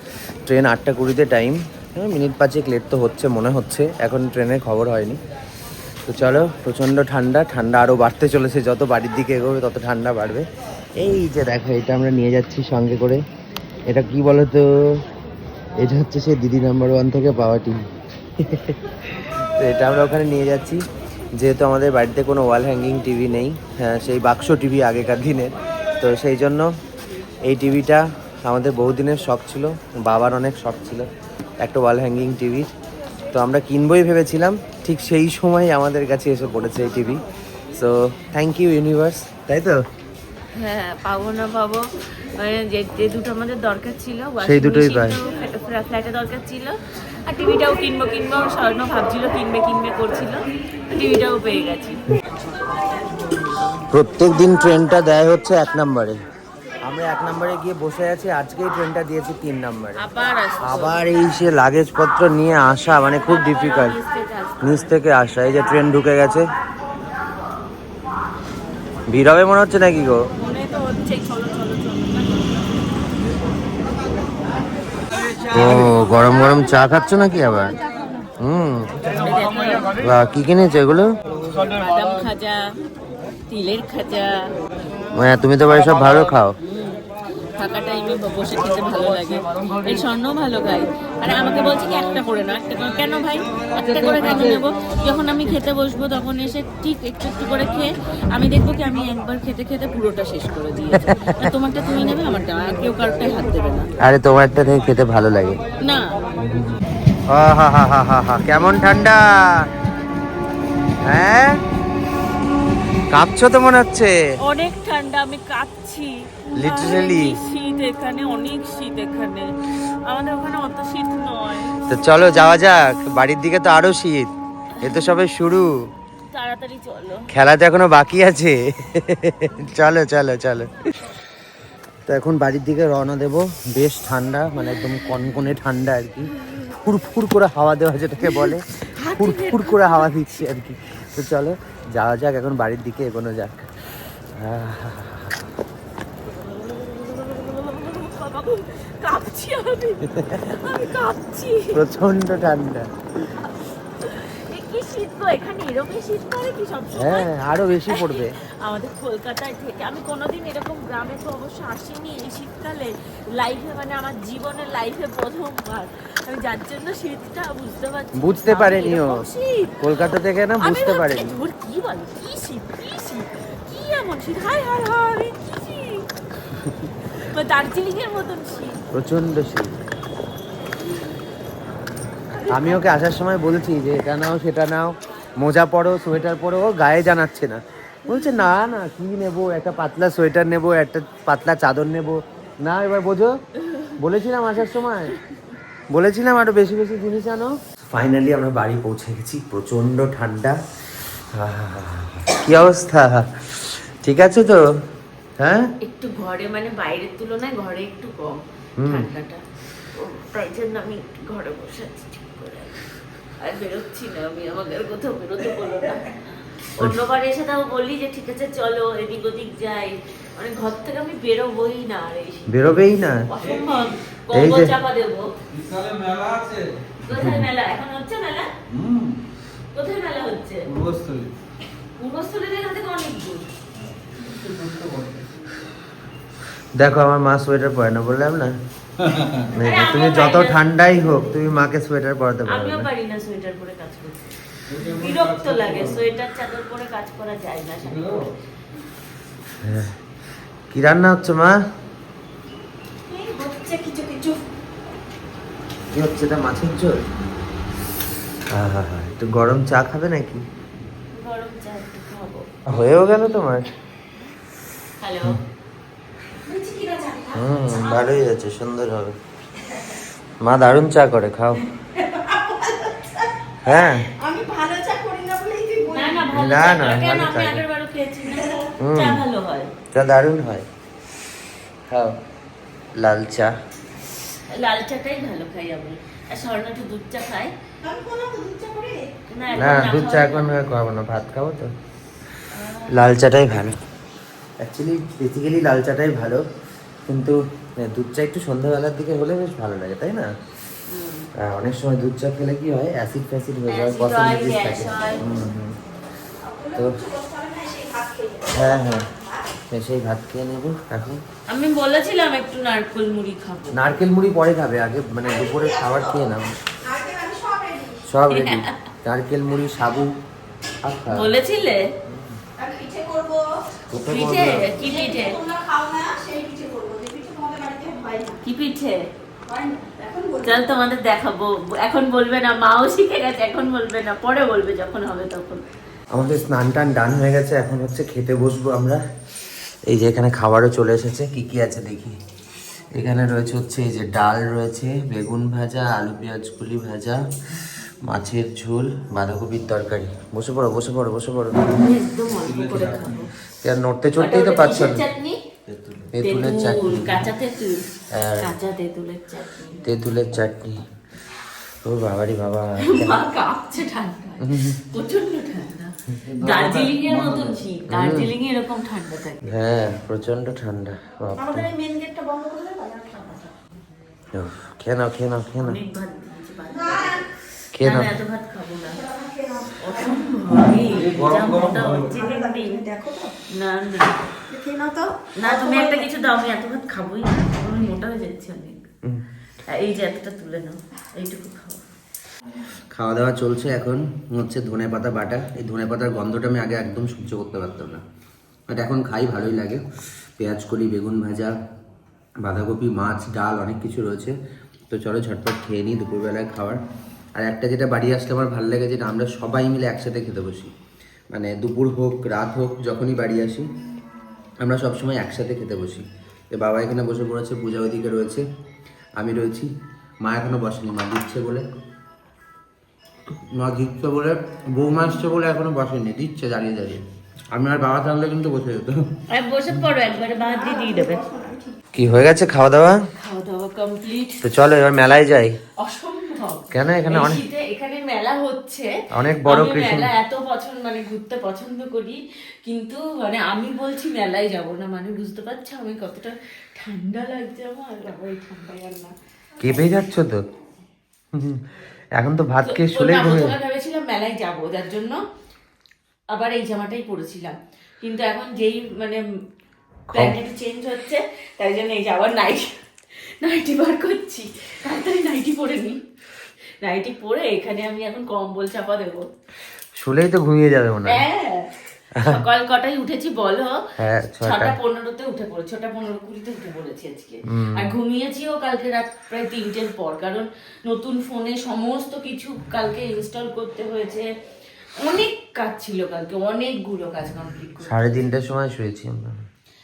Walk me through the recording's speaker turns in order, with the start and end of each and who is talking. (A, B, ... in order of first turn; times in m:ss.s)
0:00.4-0:05.2 A
0:06.1-0:10.5 A
0:11.0-0:13.2 A
0:13.9-0:15.0 A
0:15.8-0:17.8 A
0:18.4-0:18.8 A
0:19.4-0:20.8 A
0:21.4-0:26.7 A
0:27.4-0:32.7 A
0:33.3-0:39.8 A
0:40.5-0:52.0 B
0:44.4-0:45.2 A
0:53.9-0:56.2 A
0:56.8-1:00.0 A
1:00.0-1:01.0 B
1:00.6-1:04.0 A
1:03.2-1:05.0 B
1:04.6-1:06.5 A
1:09.1-1:10.3 A
1:10.4-1:12.8 B
1:15.5-1:17.7 A
1:15.6-1:16.3 B
1:18.4-1:19.1 A
1:19.1-1:19.9 B
1:20.0-1:21.1 A
1:21.5-1:22.7 B
1:23.5-1:24.4 B
1:25.1-1:26.5 A
1:26.6-1:27.0 B
1:27.6-1:43.9 B
1:41.0-1:41.5 A
1:44.0-1:45.6 A
1:45.8-1:46.1 B
1:47.3-1:49.7 A
1:51.0-1:51.6 A
1:53.1-1:54.1 A
1:54.4-2:01.8 B
1:56.6-1:57.4 A
2:01.9-2:05.7 A
2:06.3-2:07.3 B
2:07.3-2:10.7 A
2:12.0-2:25.4 A
2:18.2-2:20.1 B
2:26.3-2:31.8 B
2:30.1-2:30.6 A
2:31.7-2:32.9 A
2:33.4-2:37.3 B
2:37.0-2:38.3 A
2:37.9-2:56.1 B
2:48.2-2:49.2 A
2:49.8-2:51.3 A
2:57.1-2:58.8 B
2:58.9-2:59.8 A
3:02.3-3:02.8 B
3:02.4-3:13.4 A
3:14.0-3:15.1 A
3:15.9-3:20.6 A
3:21.3-3:24.6 A
3:25.4-3:25.7 A
3:25.8-3:32.8 B
3:28.8-3:29.1 A
3:33.4-3:42.6 B
3:42.5-3:43.3 A
3:43.2-3:45.3 B
3:43.4-3:43.9 C
3:44.3-3:44.7 A
3:45.5-3:46.7 C
3:47.0-3:48.5 B
3:47.1-3:47.4 A
3:48.7-3:49.2 C
3:49.7-3:50.7 B
3:50.7-3:51.3 C
3:52.0-3:53.5 B
3:54.1-3:55.3 C
3:56.7-3:58.6 A
3:59.0-3:59.4 C
3:59.5-4:02.9 A
3:59.5-4:00.6 B
4:02.4-4:08.3 B
4:04.7-4:06.0 C
4:07.8-4:08.3 C
4:09.6-4:09.9 A
4:10.7-4:11.6 A
4:13.1-4:14.4 D
4:15.9-4:17.1 A
4:18.5-4:20.4 A
4:21.1-4:22.5 B
4:22.7-4:23.6 A
4:25.0-4:25.4 B
4:26.4-4:27.5 D
4:27.3-4:29.2 A
4:30.4-4:31.6 A
4:31.9-4:36.3 D
4:33.6-4:34.1 A
4:35.9-4:39.7 B
4:36.3-4:37.6 A
4:38.8-4:39.2 A
4:39.9-4:40.6 A
4:41.9-4:42.2 A
4:43.0-4:43.5 A
4:44.5-4:47.5 B
4:47.8-4:49.1 D
4:49.3-4:50.5 B
4:49.5-4:51.7 A
4:52.5-4:53.0 B
4:52.9-4:53.8 A
4:54.6-4:56.4 A
4:57.1-5:00.3 A
5:00.9-5:01.3 B
5:01.4-5:05.8 A
5:03.7-5:05.2 B
5:06.4-5:09.4 D
5:08.5-5:09.1 A
5:09.7-5:11.2 A
5:11.5-5:13.8 B
5:13.7-5:16.5 A
5:15.2-5:16.3 D
5:16.8-5:18.0 D
5:18.1-5:20.1 A
5:18.3-5:18.7 B
5:20.8-5:21.3 A
5:21.1-5:21.9 B
5:22.6-5:23.5 D
5:23.9-5:24.7 A
5:24.0-5:25.4 B
5:24.8-5:28.4 D
5:28.4-5:29.0 B
5:29.4-5:30.6 D
5:30.4-5:35.6 B
5:36.1-5:39.0 A
5:39.8-5:42.2 A
5:42.9-5:51.6 A
5:51.8-5:53.3 B
5:52.3-5:53.2 C
5:53.6-5:55.0 A
5:54.2-5:55.4 B
5:55.7-5:56.1 C
5:56.1-5:57.3 A
5:56.2-5:57.8 B
5:58.1-5:58.5 A
5:58.4-5:59.8 B
5:59.8-6:00.8 A
6:01.8-6:03.2 A
6:02.8-6:09.5 B
6:04.4-6:04.8 A
6:06.1-6:08.3 A
6:09.4-6:11.7 A
6:11.4-6:13.5 D
6:14.3-6:15.8 A
6:15.6-6:17.2 B
6:16.7-6:17.2 D
6:17.7-6:18.1 A
6:17.8-6:19.0 B
6:18.9-6:20.6 D
6:19.8-6:22.8 B
6:20.8-6:22.1 A
6:21.0-6:21.8 C
6:21.8-6:23.3 D
6:23.5-6:24.2 B
6:24.5-6:26.1 D
6:25.4-6:28.8 B
6:29.7-6:31.8 B
6:32.9-6:38.0 A
6:38.7-6:39.8 A
6:40.4-6:41.5 A
6:42.4-6:44.4 A
6:44.9-6:46.8 A
6:47.4-6:50.7 A
6:51.3-6:53.7 A
6:54.6-6:58.4 A
6:59.2-6:59.7 A
7:00.2-7:01.6 A
7:03.5-7:09.0 A
7:09.3-7:11.2 B
7:10.4-7:11.8 D
7:11.9-7:13.0 A
7:13.2-7:14.4 B
7:14.4-7:15.6 A
7:15.8-7:29.1 B
7:16.7-7:17.4 A
7:19.1-7:20.1 A
7:29.6-7:30.4 A
7:31.3-7:31.6 A
7:32.2-7:33.5 A
7:32.6-7:35.2 B
7:36.3-7:39.2 B
7:40.1-7:40.4 A
7:40.1-7:42.8 B
7:43.4-7:46.0 B
7:46.8-7:49.3 B
7:50.0-7:51.2 A
7:51.0-7:51.7 B
7:52.1-7:52.4 A
7:52.2-7:53.8 B
7:54.0-7:54.7 A
7:54.4-8:04.3 B
7:57.5-7:57.9 A
8:05.0-8:08.1 B
8:07.8-8:09.4 A